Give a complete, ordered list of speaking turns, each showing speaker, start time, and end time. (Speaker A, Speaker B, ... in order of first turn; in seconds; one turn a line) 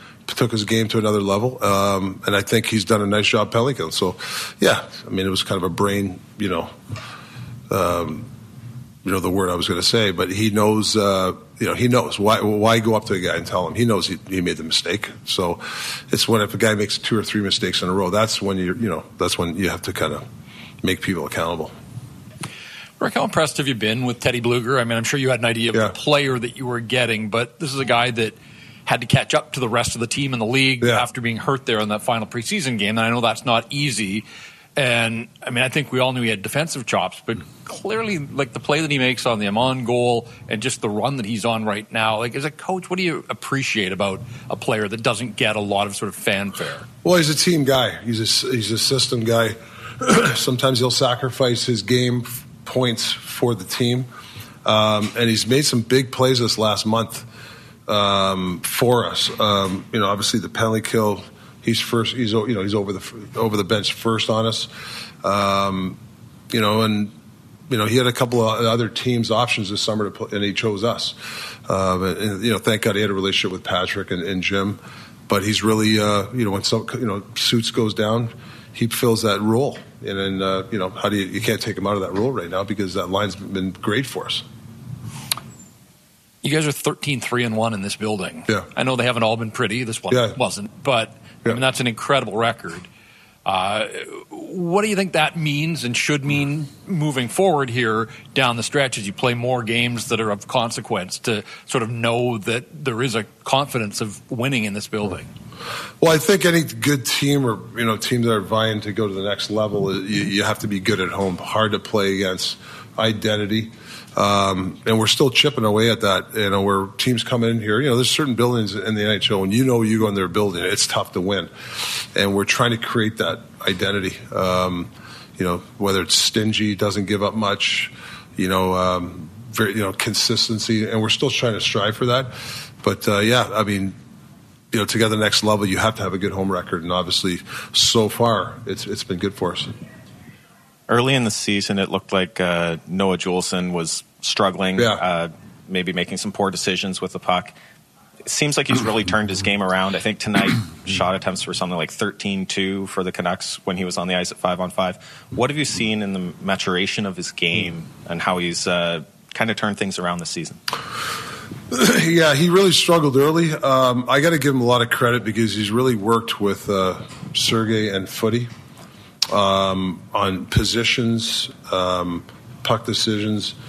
Speaker A: 0.3-6.7
Speaker A: 7.7-8.3
Speaker A: 9.1-20.3
Speaker A: 20.8-21.7
Speaker B: 23.0-46.9
Speaker A: 47.0-54.1
Speaker A: 54.6-57.3
Speaker A: 57.9-64.7
Speaker A: 65.2-66.0
Speaker A: 66.5-67.1
Speaker A: 67.7-84.5
Speaker B: 86.4-92.9
Speaker A: 90.1-90.4
Speaker B: 93.5-105.3
Speaker A: 106.0-134.0
Speaker A: 134.7-139.7
Speaker C: 140.9-147.6
Speaker A: 144.8-145.0
Speaker C: 148.2-160.6
Speaker A: 161.7-168.5
Speaker A: 169.3-173.6